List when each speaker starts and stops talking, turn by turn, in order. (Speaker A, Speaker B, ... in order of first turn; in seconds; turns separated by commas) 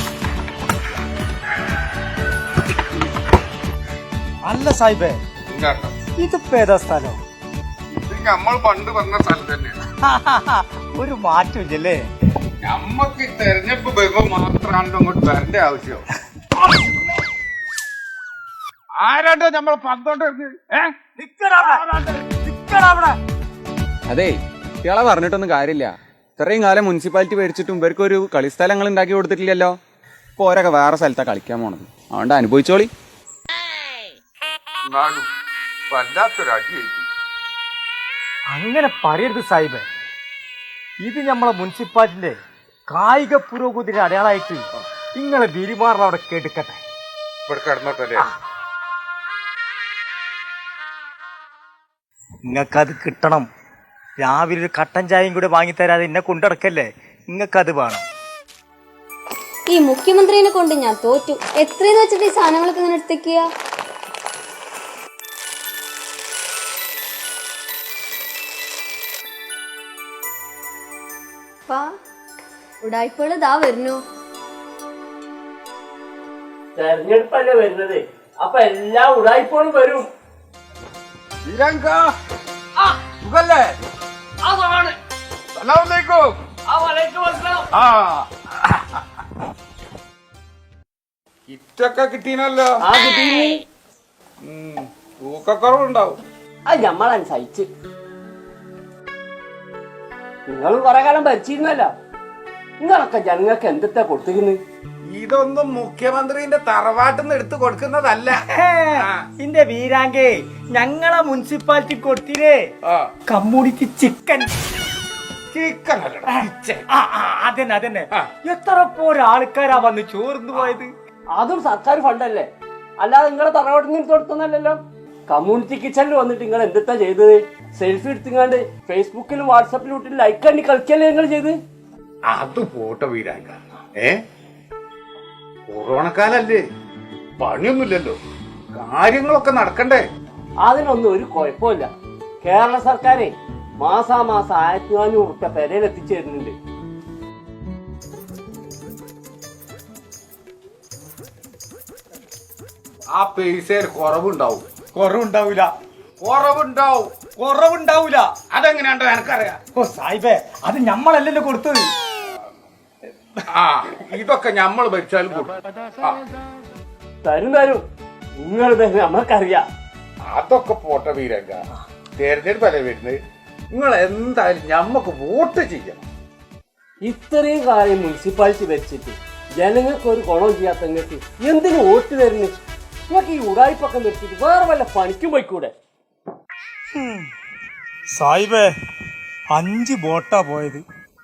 Speaker A: 4.4-5.2, Speaker B: 5.5-5.9, Speaker A: 6.2-7.2, Speaker B: 8.1-9.8, Speaker A: 10.0-12.0, Speaker B: 12.6-16.0, Speaker B: 19.0-20.9, Speaker A: 21.2-23.1, Speaker B: 21.6-22.2, Speaker C: 24.1-29.8, Speaker C: 30.4-32.9, Speaker B: 34.9-35.2, Speaker B: 35.9-37.1, Speaker A: 38.5-39.9, Speaker A: 41.0-42.4, Speaker A: 42.9-46.8, Speaker B: 47.5-48.3, Speaker A: 52.5-53.5, Speaker A: 54.2-58.0, Speaker D: 59.7-63.5, Speaker D: 72.8-74.0, Speaker E: 76.7-80.1, Speaker B: 81.5-82.0, Speaker B: 83.2-83.7, Speaker E: 84.4-84.9, Speaker B: 85.6-86.2, Speaker E: 86.7-87.6, Speaker B: 87.7-88.3, Speaker B: 91.5-92.7, Speaker E: 92.8-93.6, Speaker B: 94.4-96.2, Speaker E: 96.7-97.7, Speaker E: 100.5-101.9, Speaker E: 102.8-104.6, Speaker B: 105.1-108.4, Speaker A: 108.4-112.7, Speaker B: 109.0-109.2, Speaker A: 113.3-114.5, Speaker B: 115.5-116.8, Speaker A: 116.3-120.9, Speaker E: 121.3-131.6, Speaker B: 132.3-134.1, Speaker B: 135.7-136.6, Speaker B: 137.4-138.2, Speaker B: 138.8-140.0, Speaker E: 140.6-141.9, Speaker E: 142.4-146.5, Speaker B: 153.1-154.6, Speaker A: 154.9-155.7, Speaker B: 156.2-157.1, Speaker A: 157.4-158.3, Speaker B: 158.5-159.6, Speaker A: 159.7-161.9, Speaker B: 163.5-166.1, Speaker E: 167.2-167.8, Speaker E: 168.4-169.6, Speaker B: 170.3-171.6, Speaker B: 172.2-173.2, Speaker B: 173.7-176.1, Speaker E: 177.0-182.5, Speaker E: 183.1-185.7, Speaker A: 186.9-187.3, Speaker A: 188.2-188.7, Speaker A: 189.5-190.8